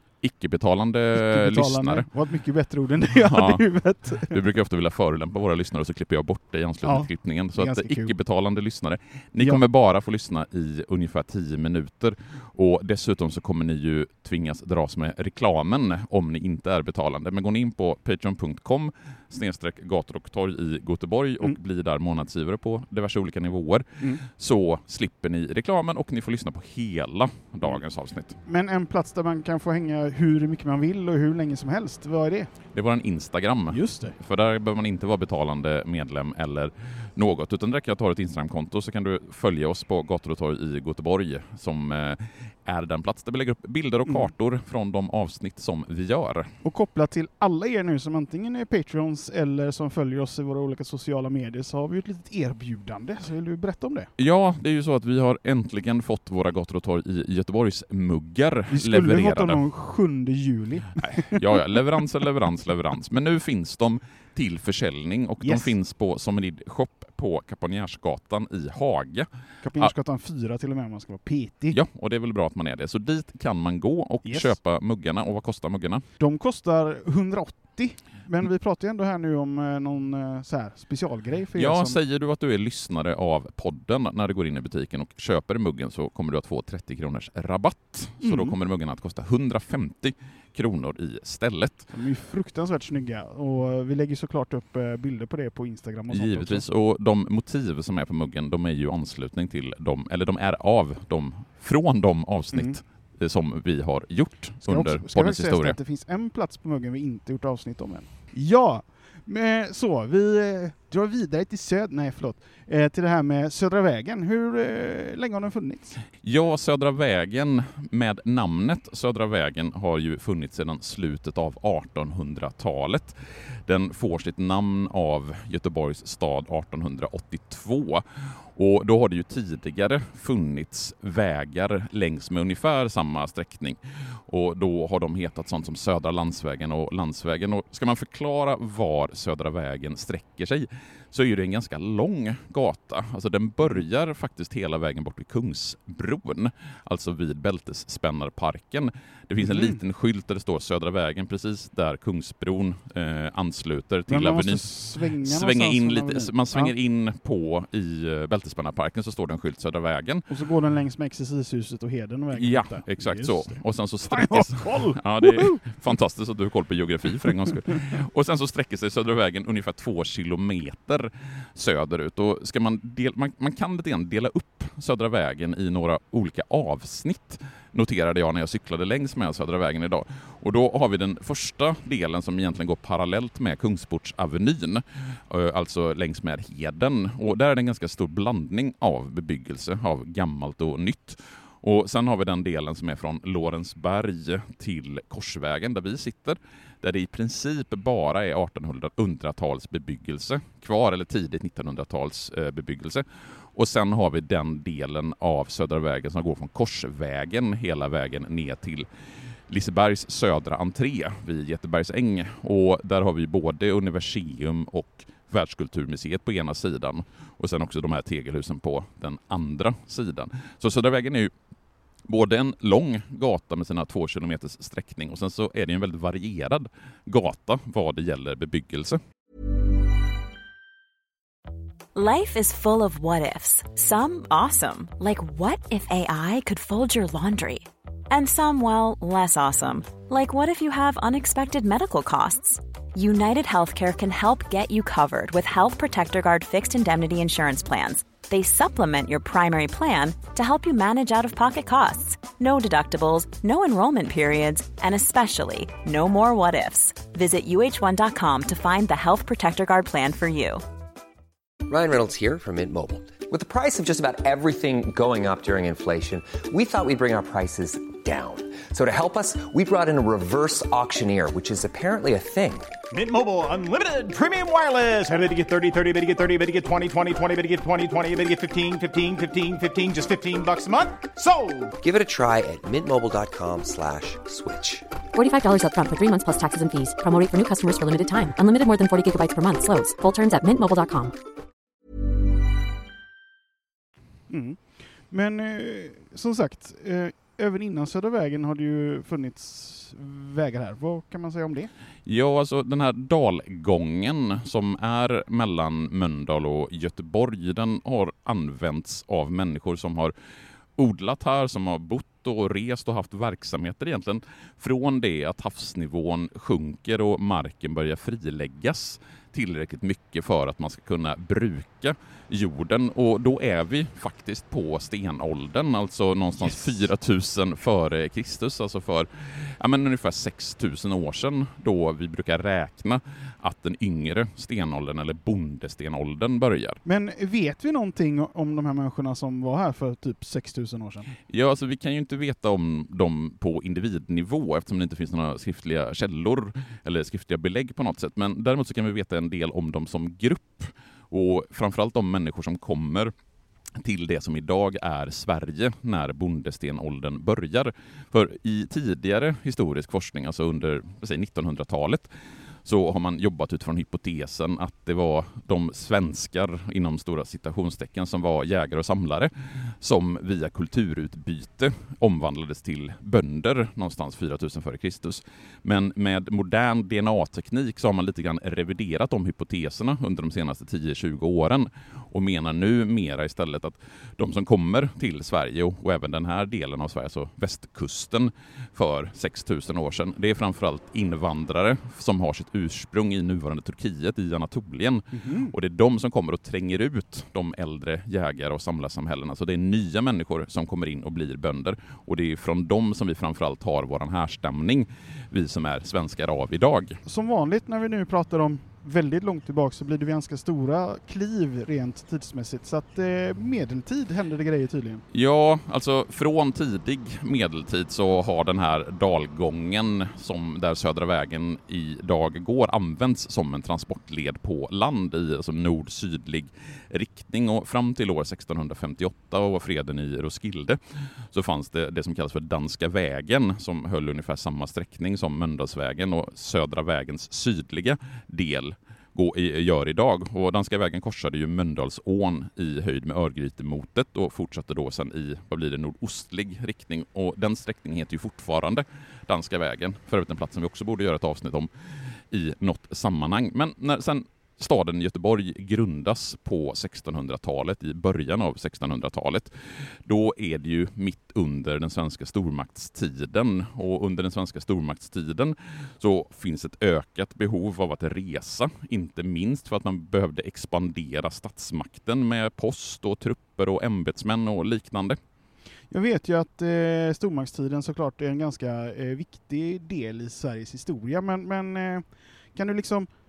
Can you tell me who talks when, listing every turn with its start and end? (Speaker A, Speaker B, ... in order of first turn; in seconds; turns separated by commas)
Speaker A: 0.2-2.1, Speaker B: 1.1-4.4, Speaker A: 3.1-28.4, Speaker B: 6.8-8.1, Speaker B: 9.4-9.6, Speaker B: 28.4-32.5, Speaker A: 32.7-46.5, Speaker B: 33.7-34.2, Speaker B: 46.6-54.1, Speaker A: 54.2-59.6, Speaker B: 58.7-61.8, Speaker A: 61.0-69.9, Speaker B: 65.4-65.7, Speaker B: 69.6-71.8, Speaker A: 71.7-76.0, Speaker B: 74.2-74.6, Speaker B: 76.2-82.0, Speaker A: 81.5-91.9, Speaker B: 88.2-88.6, Speaker B: 91.9-96.7, Speaker A: 96.1-105.8, Speaker B: 102.5-102.8, Speaker B: 104.6-116.0, Speaker A: 116.2-160.3, Speaker B: 149.4-149.8, Speaker B: 154.1-156.8, Speaker B: 160.3-165.7, Speaker A: 162.3-208.9, Speaker B: 167.2-167.6, Speaker A: 209.5-221.3, Speaker A: 222.1-229.0, Speaker C: 231.9-260.6, Speaker D: 261.7-272.7, Speaker E: 272.9-281.7, Speaker D: 281.8-284.9, Speaker F: 285.2-291.1, Speaker B: 294.3-301.7, Speaker A: 302.1-310.1, Speaker A: 310.8-336.8, Speaker B: 336.9-341.1, Speaker A: 341.3-353.1, Speaker A: 353.8-362.1, Speaker A: 362.6-406.9, Speaker B: 395.1-395.6, Speaker B: 407.1-415.0, Speaker A: 415.1-430.8, Speaker A: 431.3-451.7, Speaker A: 452.3-475.2, Speaker B: 475.9-483.1